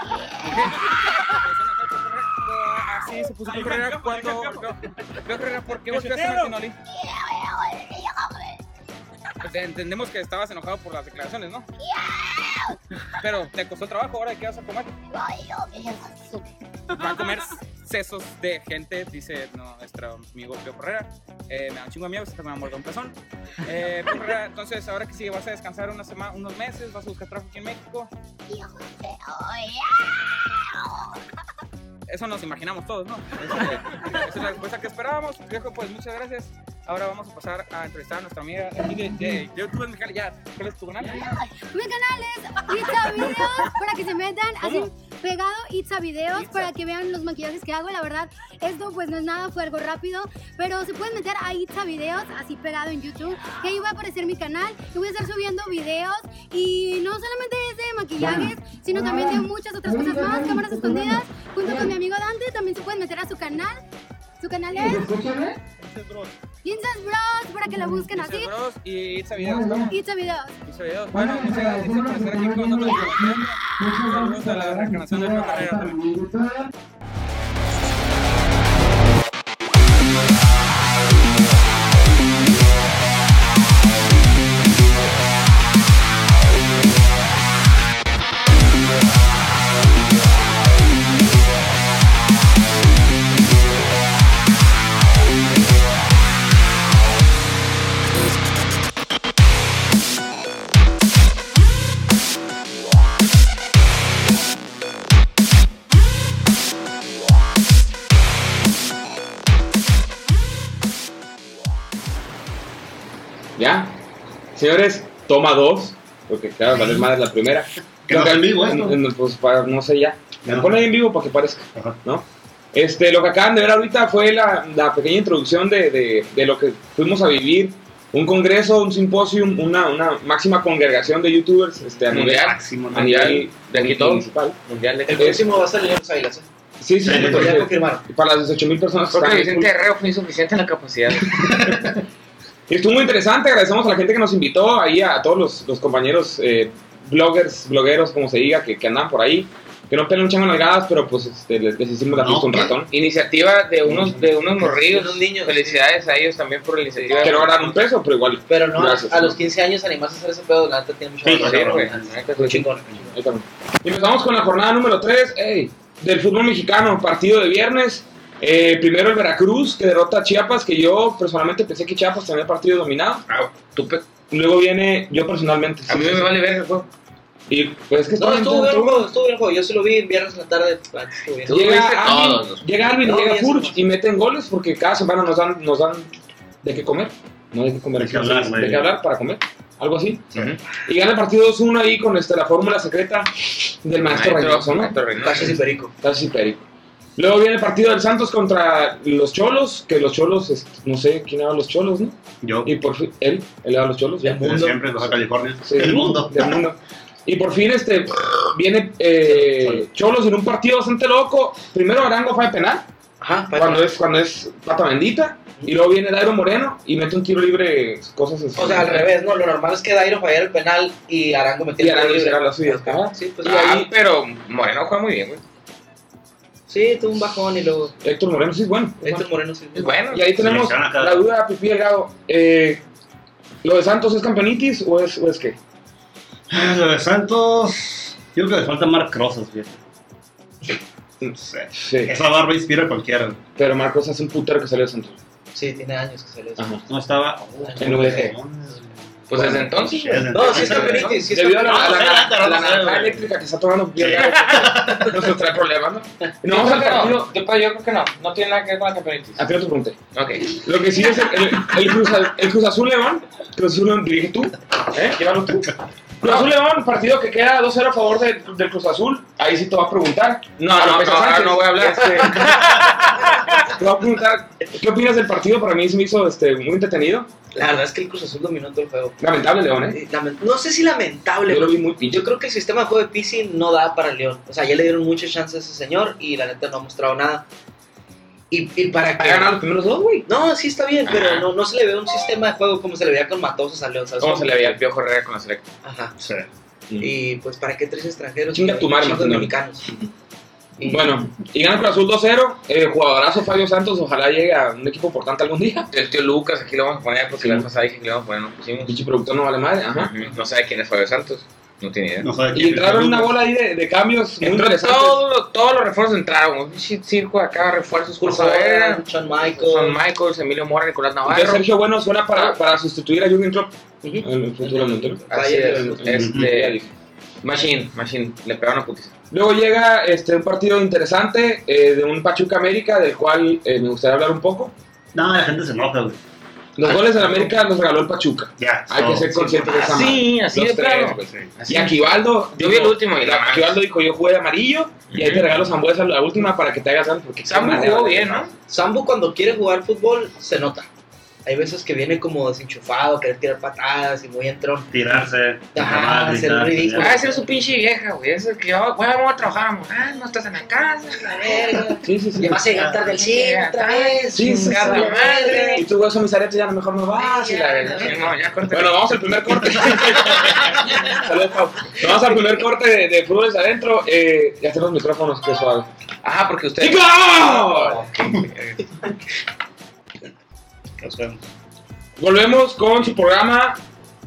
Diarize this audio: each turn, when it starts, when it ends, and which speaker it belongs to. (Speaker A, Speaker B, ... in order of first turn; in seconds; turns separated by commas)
Speaker A: 0.6-6.8, Speaker A: 9.4-11.7, Speaker A: 13.2-14.9, Speaker B: 15.3-16.4, Speaker A: 17.0-28.1, Speaker A: 32.1-41.3, Speaker B: 41.1-63.8, Speaker B: 64.4-65.5, Speaker C: 65.8-66.3, Speaker B: 66.6-68.5, Speaker A: 68.1-70.0, Speaker B: 69.8-70.6, Speaker A: 70.7-76.2, Speaker B: 72.8-73.1, Speaker D: 113.6-114.0, Speaker D: 114.6-134.6, Speaker C: 116.7-117.0, Speaker C: 118.1-119.0, Speaker C: 120.5-120.8, Speaker E: 132.1-135.4, Speaker C: 132.4-133.1, Speaker F: 135.1-136.5, Speaker D: 135.2-135.4, Speaker D: 136.8-139.7, Speaker C: 137.1-137.6, Speaker F: 137.1-138.0, Speaker E: 139.1-141.3, Speaker C: 141.5-142.0, Speaker D: 142.7-152.9, Speaker C: 152.1-152.8, Speaker E: 152.9-157.8, Speaker F: 154.7-155.8, Speaker F: 157.0-157.5, Speaker D: 157.2-159.4, Speaker F: 158.5-163.2, Speaker C: 161.2-162.2, Speaker E: 161.3-162.7, Speaker D: 162.4-173.2, Speaker E: 173.3-174.0, Speaker D: 174.3-176.4, Speaker E: 175.9-176.9, Speaker D: 177.5-179.1, Speaker F: 178.2-181.6, Speaker E: 181.5-182.6, Speaker D: 181.5-186.1, Speaker F: 183.0-183.8, Speaker D: 186.6-190.3, Speaker C: 188.0-188.9, Speaker D: 190.8-195.0, Speaker E: 194.0-195.6, Speaker F: 195.2-195.9, Speaker D: 196.0-204.4, Speaker C: 202.4-202.7, Speaker F: 204.2-205.2, Speaker C: 204.4-206.6, Speaker D: 205.6-212.9, Speaker F: 209.3-209.8, Speaker F: 213.2-213.9, Speaker D: 213.5-219.1, Speaker F: 218.6-223.9, Speaker D: 221.8-223.2, Speaker E: 223.4-225.4, Speaker F: 226.7-227.9, Speaker D: 228.0-229.3, Speaker F: 229.0-230.0, Speaker E: 229.8-230.3, Speaker D: 230.1-232.8, Speaker C: 230.4-231.3, Speaker D: 233.6-235.6, Speaker C: 236.5-239.8, Speaker C: 241.2-243.4, Speaker D: 241.3-242.2, Speaker D: 243.6-245.2, Speaker F: 245.5-246.7, Speaker D: 246.6-246.8, Speaker C: 246.9-251.1, Speaker F: 247.6-248.3, Speaker D: 247.8-248.4, Speaker E: 249.3-251.2, Speaker D: 249.3-249.7, Speaker F: 250.3-252.0, Speaker D: 250.7-257.3, Speaker C: 251.6-253.2, Speaker C: 254.0-255.2, Speaker E: 254.2-254.7, Speaker E: 256.5-259.4, Speaker D: 259.4-272.9, Speaker E: 260.1-260.5, Speaker E: 266.2-266.5, Speaker E: 270.6-273.7, Speaker D: 273.6-277.3, Speaker F: 277.5-279.2, Speaker D: 279.2-280.0, Speaker F: 279.9-287.5, Speaker D: 281.5-282.2, Speaker F: 288.5-289.6, Speaker D: 289.2-290.3, Speaker F: 290.3-294.8, Speaker E: 291.1-291.5, Speaker E: 294.2-295.6, Speaker F: 295.8-296.1, Speaker C: 296.2-296.5, Speaker F: 297.0-299.9, Speaker D: 298.5-299.5, Speaker F: 300.8-301.1, Speaker D: 300.9-305.9, Speaker E: 305.9-309.0, Speaker D: 307.4-307.7, Speaker D: 308.9-310.1, Speaker E: 310.0-312.3, Speaker C: 312.2-313.4, Speaker D: 312.5-315.2, Speaker E: 314.4-321.6, Speaker F: 318.2-320.0, Speaker D: 321.3-325.2, Speaker F: 324.0-326.2, Speaker E: 325.3-326.8, Speaker D: 325.8-326.9, Speaker C: 326.1-326.5, Speaker E: 327.4-329.1, Speaker D: 329.3-334.7, Speaker C: 335.1-336.2, Speaker D: 336.8-348.5, Speaker F: 336.9-337.4, Speaker C: 338.6-339.6, Speaker F: 339.4-340.0, Speaker E: 339.6-343.8, Speaker C: 341.2-341.5, Speaker E: 345.1-345.6, Speaker E: 347.4-348.5, Speaker F: 348.7-350.9, Speaker F: 351.4-354.9, Speaker C: 354.9-357.2, Speaker F: 355.7-357.5, Speaker E: 357.0-361.7, Speaker F: 361.3-365.9, Speaker D: 362.0-362.7, Speaker C: 362.7-363.0, Speaker E: 363.0-365.8, Speaker D: 364.3-375.9, Speaker F: 367.2-368.4, Speaker E: 367.9-370.5, Speaker E: 376.2-379.1, Speaker D: 376.8-378.1, Speaker C: 381.0-381.4, Speaker D: 382.2-383.8